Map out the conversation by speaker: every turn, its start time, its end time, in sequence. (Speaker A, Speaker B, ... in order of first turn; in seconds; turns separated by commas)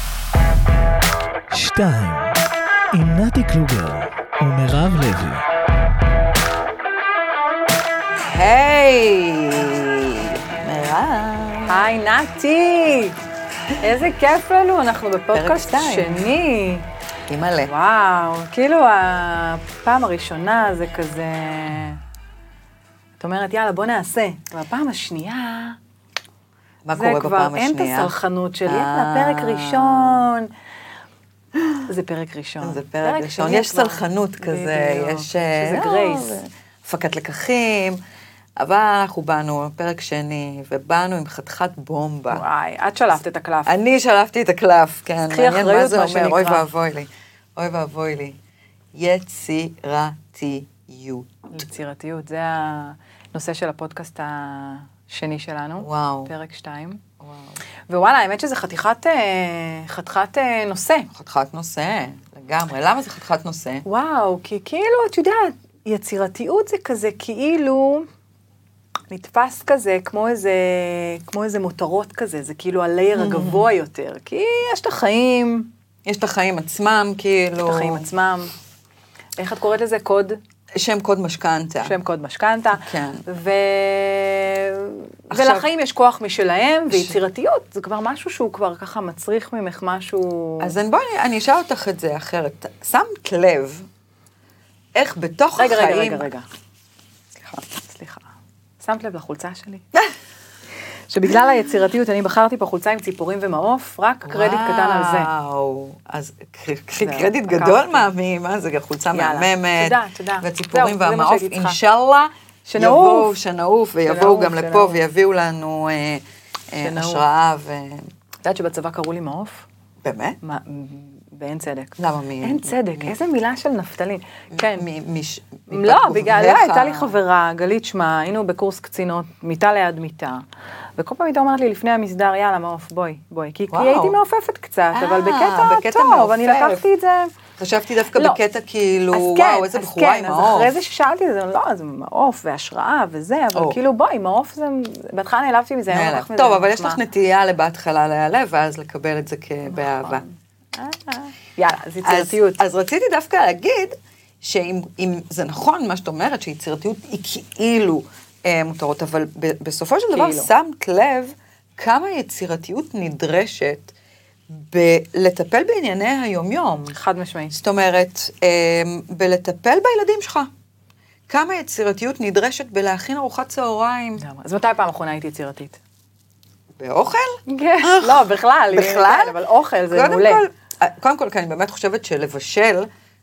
Speaker A: 1.5-2.4, Speaker A: 2.9-5.4, Speaker B: 8.2-11.9, Speaker C: 11.7-13.2, Speaker C: 13.8-16.9, Speaker B: 15.3-16.3, Speaker B: 17.3-17.7, Speaker C: 17.6-22.0, Speaker C: 23.2-25.8, Speaker B: 26.9-28.1, Speaker C: 26.9-30.5, Speaker B: 28.7-30.3, Speaker C: 31.9-36.4, Speaker B: 32.6-38.0, Speaker B: 38.6-42.4, Speaker C: 42.3-43.7, Speaker B: 43.7-48.4, Speaker C: 45.3-46.7, Speaker B: 48.9-51.5, Speaker C: 51.5-57.0, Speaker B: 55.8-56.3, Speaker B: 57.2-57.6, Speaker C: 57.9-61.1, Speaker B: 61.1-63.8, Speaker C: 63.8-68.1, Speaker C: 69.1-75.7, Speaker B: 73.1-73.7, Speaker B: 76.0-78.1, Speaker C: 77.6-78.5, Speaker C: 79.4-80.4, Speaker B: 80.8-82.0, Speaker C: 81.8-90.7, Speaker B: 82.7-83.2, Speaker B: 85.3-85.7, Speaker B: 86.9-87.2, Speaker B: 90.6-93.9, Speaker B: 95.0-96.3, Speaker C: 95.6-96.5, Speaker B: 97.4-97.6, Speaker C: 97.8-98.3, Speaker C: 98.8-99.8, Speaker C: 101.1-105.3, Speaker B: 104.2-118.1, Speaker C: 107.0-108.1, Speaker C: 109.1-111.8, Speaker C: 112.7-113.3, Speaker C: 114.0-115.0, Speaker C: 116.8-117.2, Speaker C: 118.4-119.7, Speaker B: 120.0-120.4, Speaker C: 120.4-124.9, Speaker B: 122.0-122.8, Speaker B: 124.5-127.2, Speaker C: 125.7-130.4, Speaker C: 131.0-137.3, Speaker B: 133.7-134.2, Speaker B: 134.9-136.8, Speaker B: 137.6-140.7, Speaker C: 138.1-138.4, Speaker C: 139.1-147.0, Speaker B: 145.9-150.2, Speaker C: 149.7-152.6, Speaker B: 152.0-163.9, Speaker C: 160.1-160.5, Speaker B: 164.5-167.0, Speaker C: 166.9-167.6, Speaker B: 167.5-170.5, Speaker B: 171.3-174.2, Speaker C: 174.2-175.8, Speaker B: 176.8-179.4, Speaker C: 177.5-180.4, Speaker B: 179.9-182.9